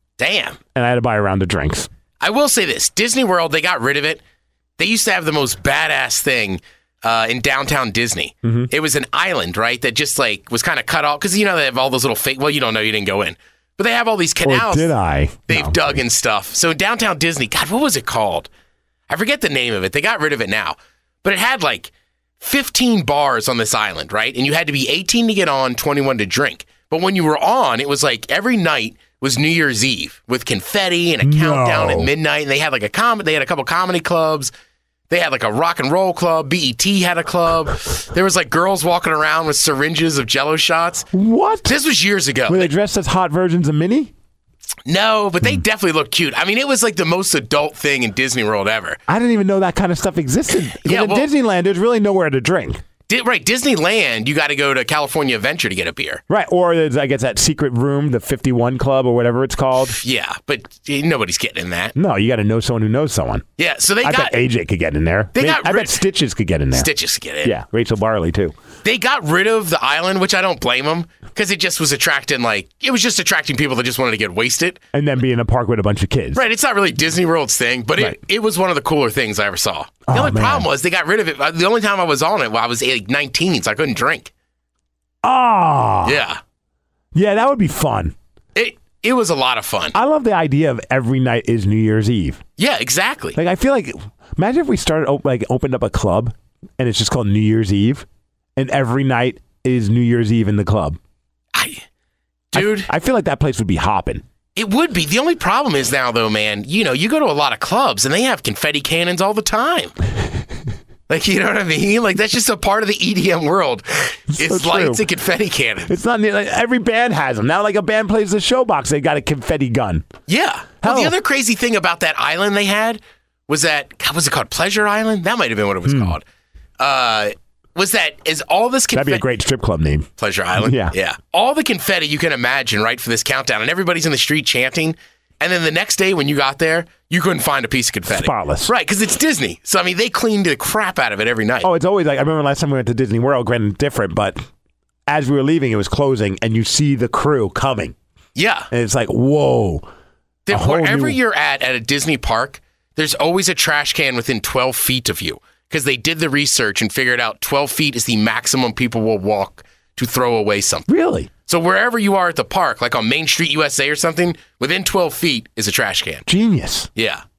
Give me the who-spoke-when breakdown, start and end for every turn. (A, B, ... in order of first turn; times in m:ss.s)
0:00.2-0:00.6 A
0:00.8-0:01.9 B
0:02.2-0:04.2 A
0:04.8-0:14.9 A
0:08.4-0:08.7 B
0:14.4-0:16.0 B
0:15.5-0:18.5 A
0:19.1-0:34.5 A
0:31.2-0:32.1 B
0:35.1-0:41.1 A
0:41.1-0:41.8 B
0:41.7-0:42.7 A
0:42.5-0:44.1 B
0:44.9-0:49.0 A
0:49.1-0:52.8 B
0:50.7-0:51.3 A
0:53.1-0:56.2 A
0:56.3-1:00.0 B
1:00.0-1:02.0 A
1:02.0-1:03.5 B
1:03.6-1:04.4 A
1:04.0-1:06.9 B
1:05.4-1:06.0 A
1:06.7-1:07.6 A
1:07.4-1:08.6 B
1:08.8-1:14.8 A
1:14.9-1:16.4 B
1:16.4-1:24.3 A
1:20.1-1:20.7 B
1:25.2-1:26.2 B
1:26.0-1:26.4 A
1:27.1-1:28.2 B
1:28.6-1:30.0 A
1:29.9-1:32.4 B
1:32.6-1:33.4 A
1:33.4-1:41.0 B
1:41.6-1:41.8 A
1:42.5-1:42.9 A
1:42.5-1:44.2 B
1:44.6-1:49.9 A
1:51.1-1:56.0 A
1:54.3-1:55.0 B
1:55.9-2:00.1 B
2:00.3-2:06.2 A
2:00.8-2:01.2 B
2:05.8-2:06.2 B
2:06.8-2:09.2 A
2:08.9-2:11.0 B
2:10.2-2:21.7 A
2:18.1-2:18.7 B
2:21.6-2:24.4 B
2:25.1-2:28.0 B
2:28.4-2:28.7 A
2:28.7-2:29.9 B
2:30.5-2:40.9 A
2:30.5-2:31.2 B
2:40.9-2:41.3 B
2:41.5-2:46.3 A
2:46.3-2:46.9 B
2:47.0-2:47.2 A